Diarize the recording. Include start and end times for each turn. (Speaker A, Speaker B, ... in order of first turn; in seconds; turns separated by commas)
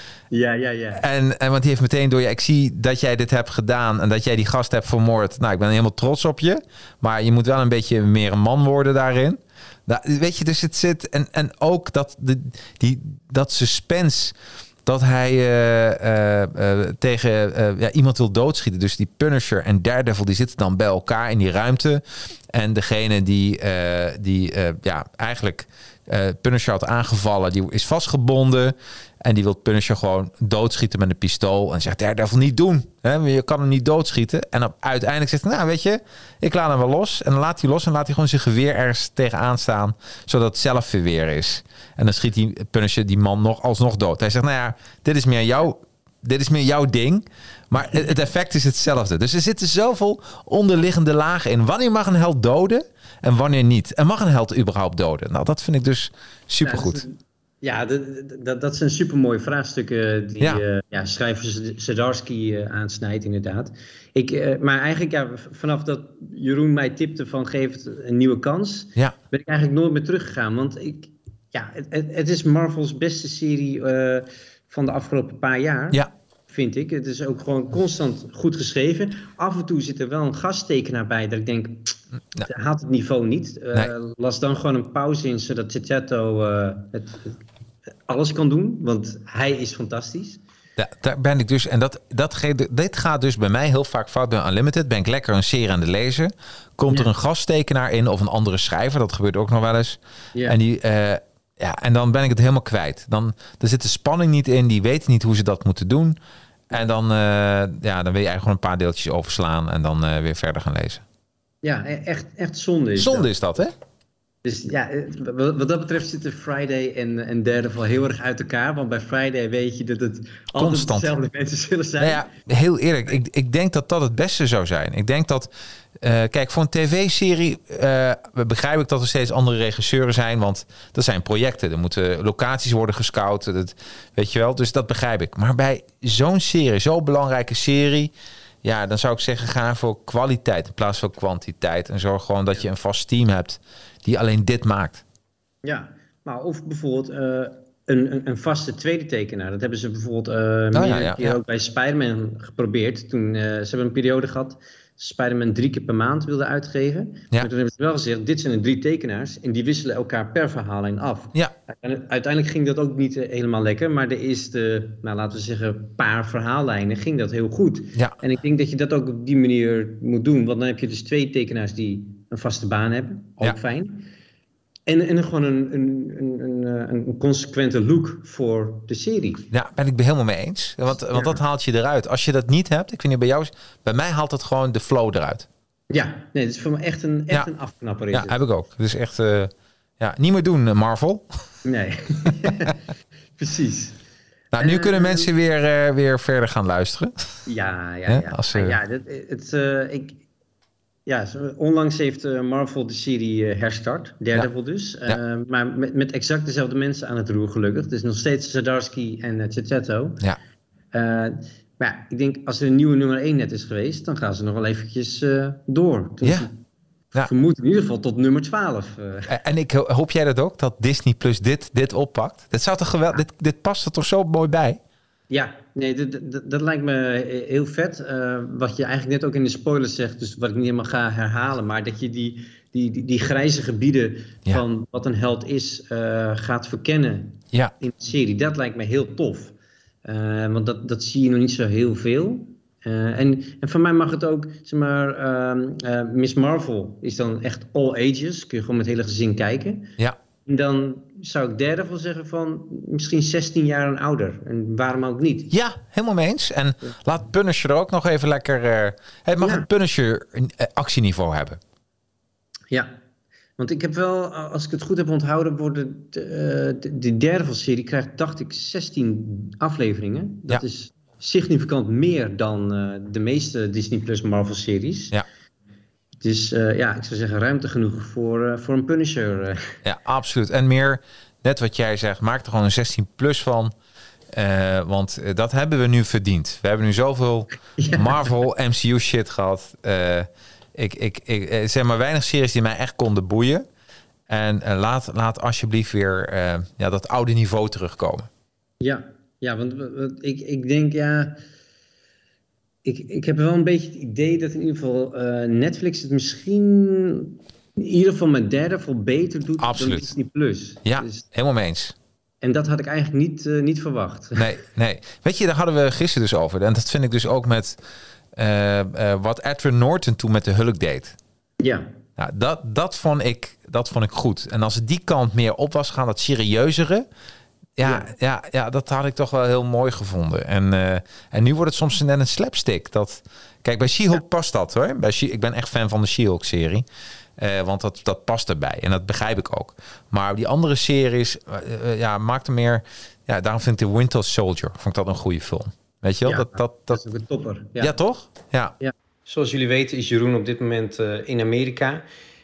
Speaker A: 0.3-1.0, Speaker B: 1.0-57.0, Speaker A: 56.6-87.3, Speaker A: 88.1-90.4, Speaker B: 90.8-106.2, Speaker B: 106.7-111.0, Speaker A: 111.6-113.3, Speaker B: 113.0-113.7, Speaker A: 114.4-122.2, Speaker B: 120.5-121.1, Speaker B: 122.0-138.1, Speaker B: 138.6-145.0, Speaker A: 145.6-174.1, Speaker B: 150.7-151.4, Speaker A: 174.9-179.5, Speaker B: 179.5-185.5, Speaker A: 181.1-181.4, Speaker A: 185.9-188.4, Speaker B: 188.1-191.3, Speaker A: 191.7-192.8, Speaker A: 193.4-194.0, Speaker B: 194.5-197.3, Speaker A: 194.6-195.3, Speaker A: 197.5-200.2, Speaker B: 198.1-198.8, Speaker A: 201.1-210.2, Speaker A: 210.9-216.6, Speaker A: 217.2-219.3, Speaker B: 219.3-224.8, Speaker A: 225.3-249.9, Speaker A: 250.5-255.5, Speaker B: 255.5-261.6, Speaker A: 259.4-259.7, Speaker A: 263.6-275.2, Speaker A: 276.2-279.8, Speaker B: 279.8-283.7, Speaker B: 284.3-293.7, Speaker A: 287.8-288.2, Speaker B: 294.3-298.3, Speaker A: 298.8-301.4, Speaker A: 302.9-311.2, Speaker B: 309.6-310.1, Speaker B: 310.8-311.9, Speaker A: 312.4-314.5, Speaker B: 314.4-317.8, Speaker B: 318.4-321.2, Speaker A: 321.6-321.9, Speaker B: 322.2-327.1, Speaker B: 327.8-336.9, Speaker A: 327.8-328.1, Speaker B: 337.4-347.0, Speaker A: 346.3-348.0, Speaker B: 347.8-348.8, Speaker A: 348.8-352.0